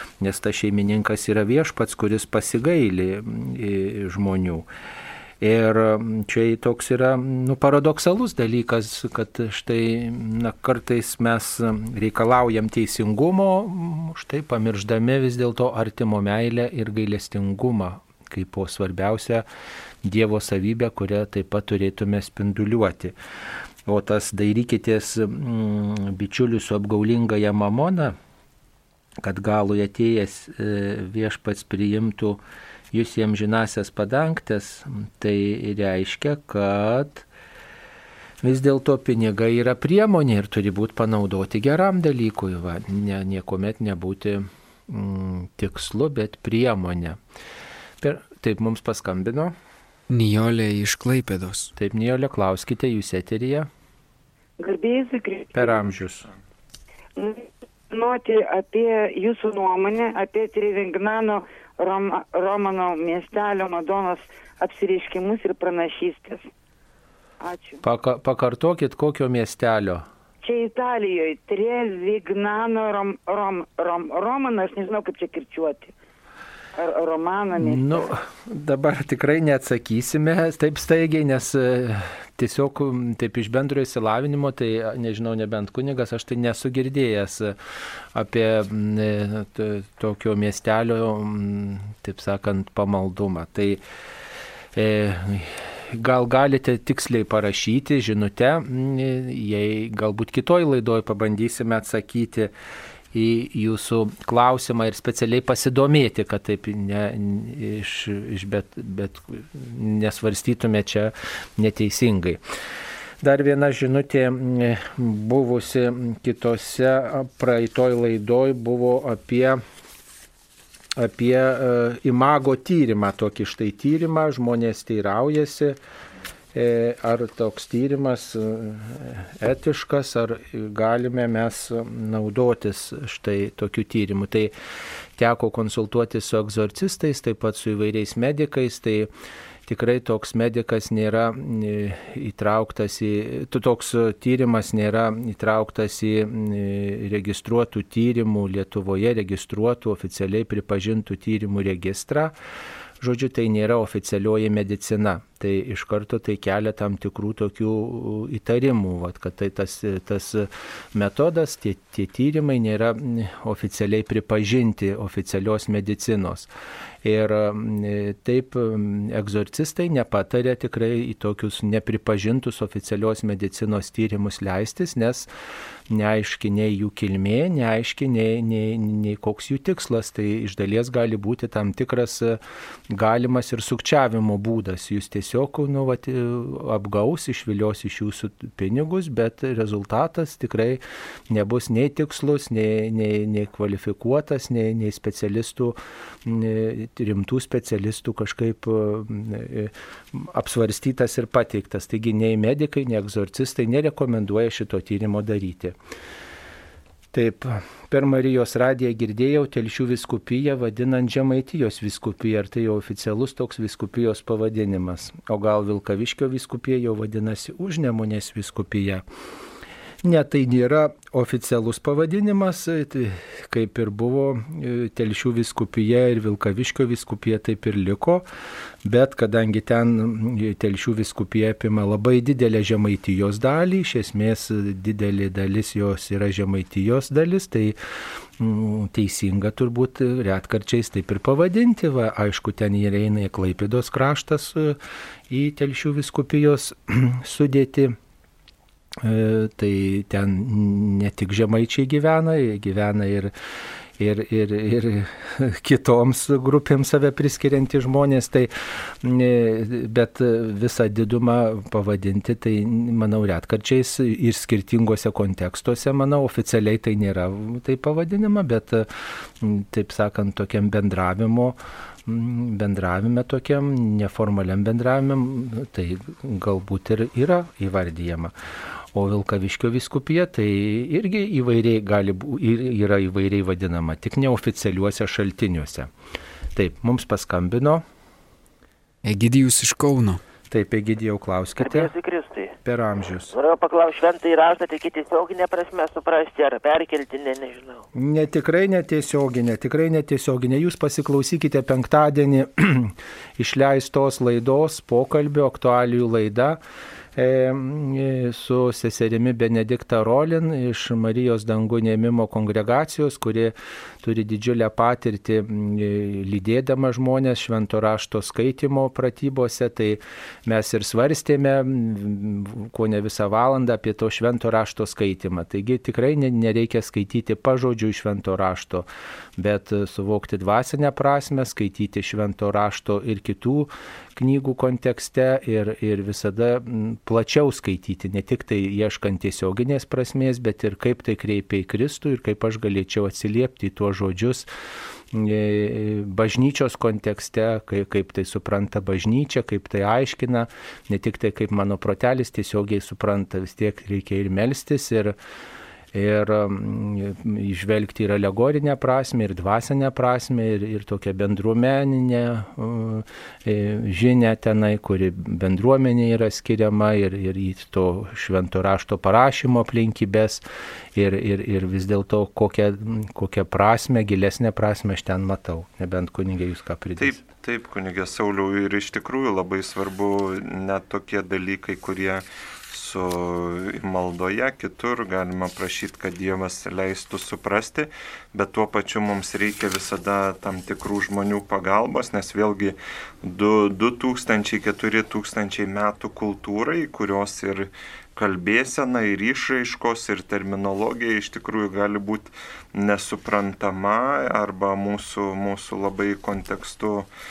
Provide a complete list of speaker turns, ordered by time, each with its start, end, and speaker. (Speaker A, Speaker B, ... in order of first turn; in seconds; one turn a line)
Speaker A: 0.2-4.7
Speaker A: 5.4-19.4
Speaker A: 20.0-23.1
Speaker A: 23.9-28.1
Speaker A: 29.2-32.4
Speaker A: 32.9-37.3
Speaker A: 38.4-47.2
Speaker A: 48.0-49.5
Speaker B: 50.1-51.7
Speaker A: 51.8-53.7
Speaker C: 54.6-55.9
Speaker A: 55.5-56.3
Speaker C: 57.2-66.5
Speaker C: 67.4-67.8
Speaker A: 67.8-70.1
Speaker C: 70.4-75.9
Speaker C: 76.8-78.1
Speaker A: 77.5-87.5
Speaker A: 88.1-93.8
Speaker A: 94.7-102.5
Speaker A: 103.1-112.4
Speaker A: 113.2-119.6
Speaker A: 121.0-125.8
Speaker A: 126.5-134.5
Speaker A: 135.2-139.1
Speaker A: 139.7-152.3
Speaker A: 153.0-166.5
Speaker A: 167.0-175.3
Speaker A: 175.9-182.4
Speaker A: 182.9-205.7
Speaker A: 207.1-219.0
Speaker A: 220.0-228.2
Speaker A: 228.8-237.8
Speaker A: 238.4-244.8
Speaker A: 245.3-247.9
Speaker A: 249.0-253.3
Speaker A: 254.0-258.5
Speaker A: 259.0-268.9
Speaker A: 269.4-278.3
Speaker A: 278.9-285.9
Speaker A: 286.5-287.8
Speaker B: 289.0-290.2
Speaker A: 290.5-291.9
Speaker D: 291.6-292.5
Speaker A: 292.6-293.3
Speaker D: 293.3-297.8
Speaker A: 297.9-306.6
Speaker A: 307.1-328.9
Speaker A: 329.4-344.5
Speaker A: 345.1-355.1
Speaker A: 355.9-370.4
Speaker A: 370.9-377.2
Speaker E: 377.0-407.1